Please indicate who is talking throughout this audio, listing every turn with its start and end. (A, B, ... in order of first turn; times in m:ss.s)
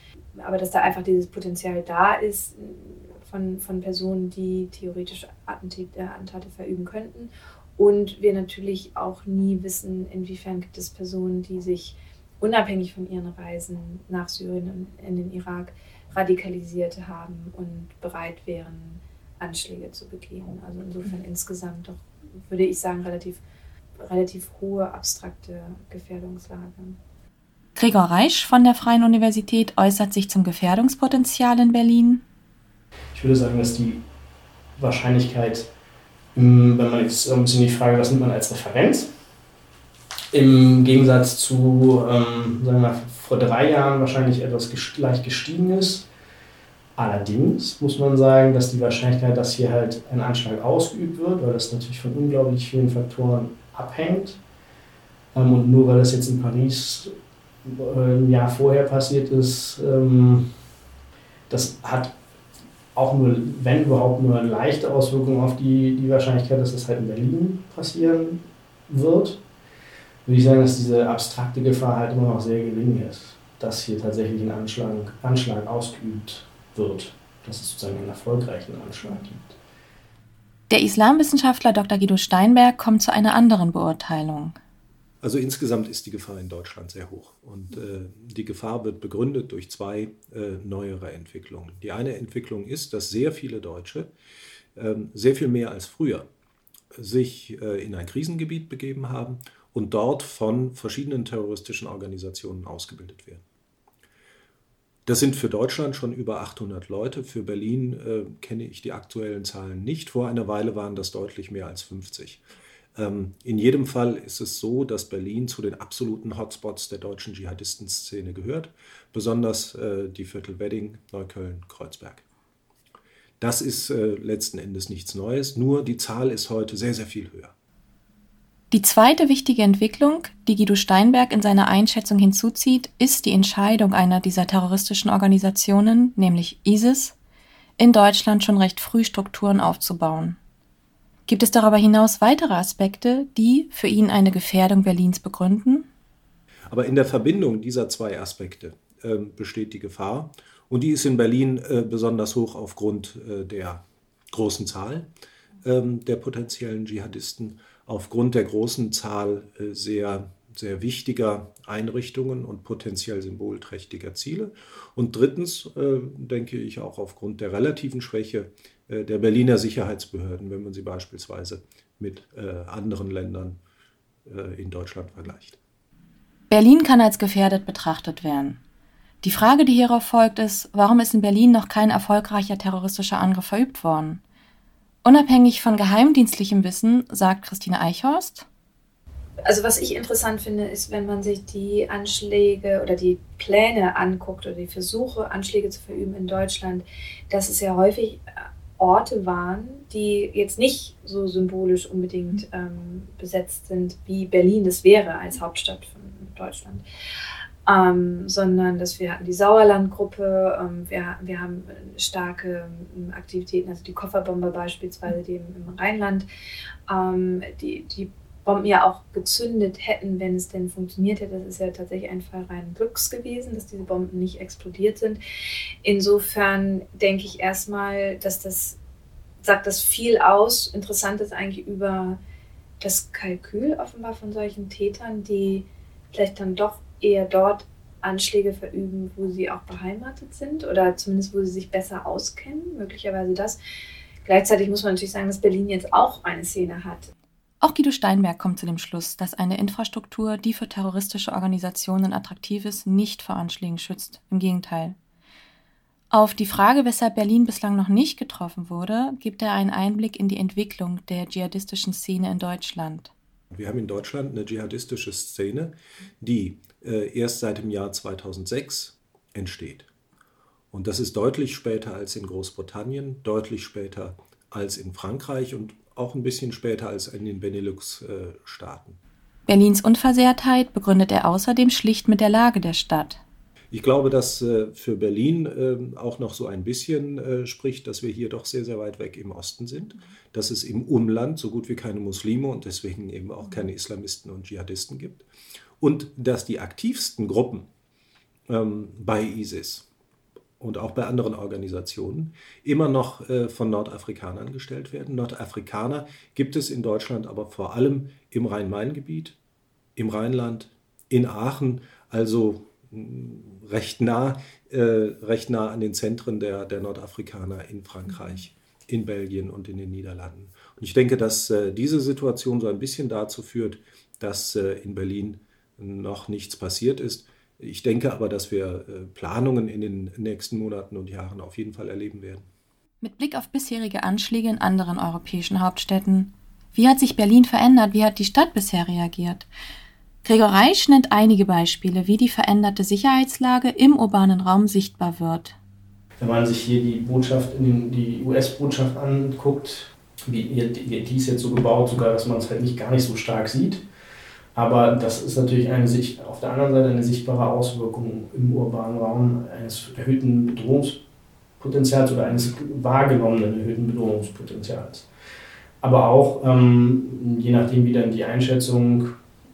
0:00.4-0:23.4 A
0:24.0-0:27.0 A
0:27.8-0:32.2 B
0:33.1-0:34.1 C
0:34.8-0:35.7 C
0:36.3-0:39.1 C
0:40.3-0:46.1 C
0:47.0-0:54.4 C
0:55.3-1:00.6 C
1:01.5-1:02.2 C
1:02.9-1:09.4 C
1:10.2-1:19.6 C
1:20.7-1:24.6 B
1:25.2-1:34.1 D
1:34.8-1:36.3 D
1:36.9-1:43.4 D
1:45.1-1:52.4 D
1:52.9-2:02.2 D
2:03.4-2:07.5 D
2:08.7-2:17.2 B
2:17.8-2:20.4 B
2:21.3-2:25.9 B
2:26.7-2:35.1 D
2:35.6-2:53.6 D
2:54.2-2:55.6 D
2:56.5-2:58.6 B
2:59.2-3:04.2 B
3:05.0-3:08.5 B
3:09.5-3:18.2 A
3:18.8-3:26.8 A
3:27.6-3:36.3 A
3:36.9-3:45.2 A
3:45.8-3:48.8 A
3:49.4-3:52.2 A
3:52.8-4:03.6 A
4:04.2-4:07.1 A
4:07.6-4:15.0 B
4:16.1-4:23.1 B
4:23.5-4:29.9 D
4:30.7-4:39.0 D
4:39.5-4:43.2 B
4:43.7-4:55.2 D
4:55.8-4:57.7 D
4:58.5-4:59.9 D
5:00.6-5:09.4 D
5:10.0-5:32.5 D
5:33.0-5:39.5 B
5:40.2-5:45.6 B
5:46.2-5:53.8 C
5:54.5-6:01.0 C
6:01.6-6:05.1 C
6:05.8-6:09.2 C